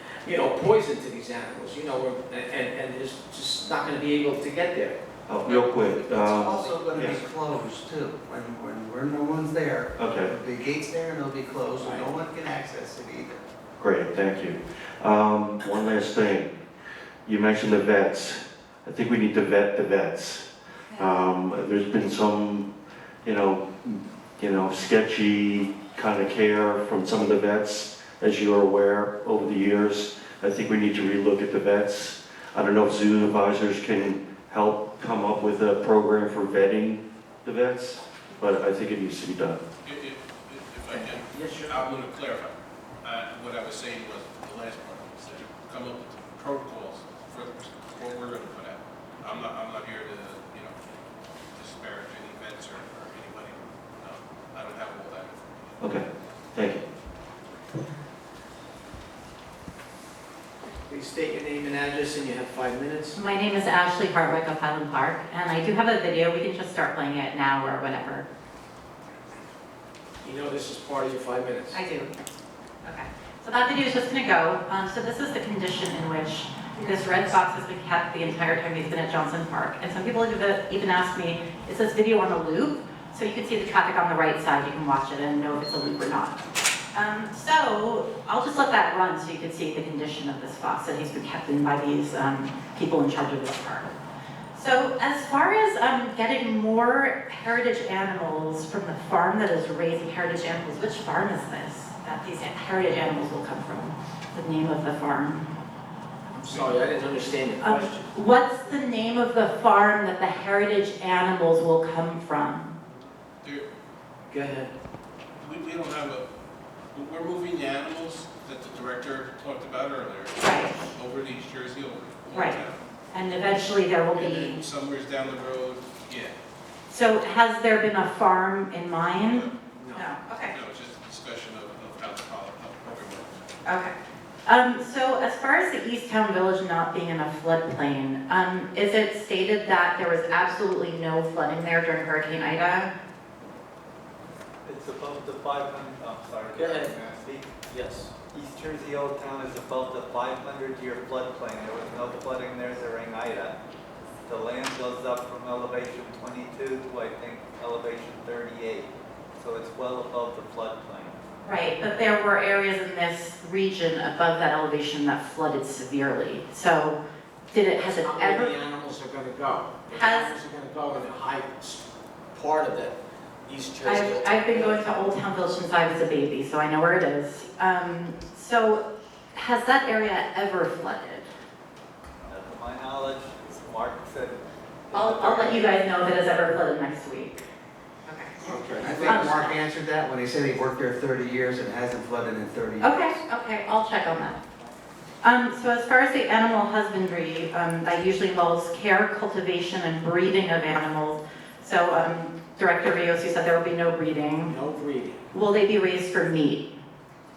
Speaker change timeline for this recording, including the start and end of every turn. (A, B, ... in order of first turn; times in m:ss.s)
0:00.2-0:06.8 A
0:05.3-0:07.2 B
0:06.4-0:13.4 C
0:10.0-0:10.3 B
0:11.8-0:12.1 A
0:13.8-0:16.5 B
0:17.2-0:22.7 B
0:23.2-0:39.6 B
0:39.8-0:50.8 D
0:40.9-0:42.0 A
0:51.6-0:55.4 D
0:55.8-0:56.8 B
1:00.8-1:03.2 A
1:03.2-1:08.3 E
1:10.2-1:11.8 A
1:11.7-1:12.1 E
1:12.8-1:26.4 E
1:16.8-1:17.2 A
1:26.9-1:33.9 E
1:34.5-1:45.5 E
1:46.3-1:48.1 A
1:47.6-1:52.8 E
1:54.3-1:54.7 A
1:55.4-1:56.3 D
1:56.9-2:02.8 D
2:00.4-2:00.8 E
2:02.3-2:02.6 E
2:03.1-2:04.6 E
2:04.2-2:06.4 D
2:06.9-2:10.6 E
2:09.2-2:09.5 D
2:09.8-2:10.0 A
2:10.5-2:13.5 D
2:13.7-2:13.9 E
2:14.5-2:22.9 E
2:24.6-2:27.5 F
2:26.5-2:27.0 A
2:27.7-2:28.1 A
2:28.3-2:33.6 F
2:34.3-2:41.2 F
2:41.4-2:47.0 E
2:47.5-2:48.5 E
2:47.8-2:54.9 A
2:49.9-2:50.3 E
2:53.8-3:01.3 E
3:02.2-3:05.7 F
3:04.9-3:07.4 E
3:08.1-3:08.4 E
3:08.4-3:13.2 C
3:09.0-3:09.6 E
3:12.8-3:14.4 E
3:15.2-3:24.6 E
3:24.5-3:25.2 A
3:25.3-3:26.7 E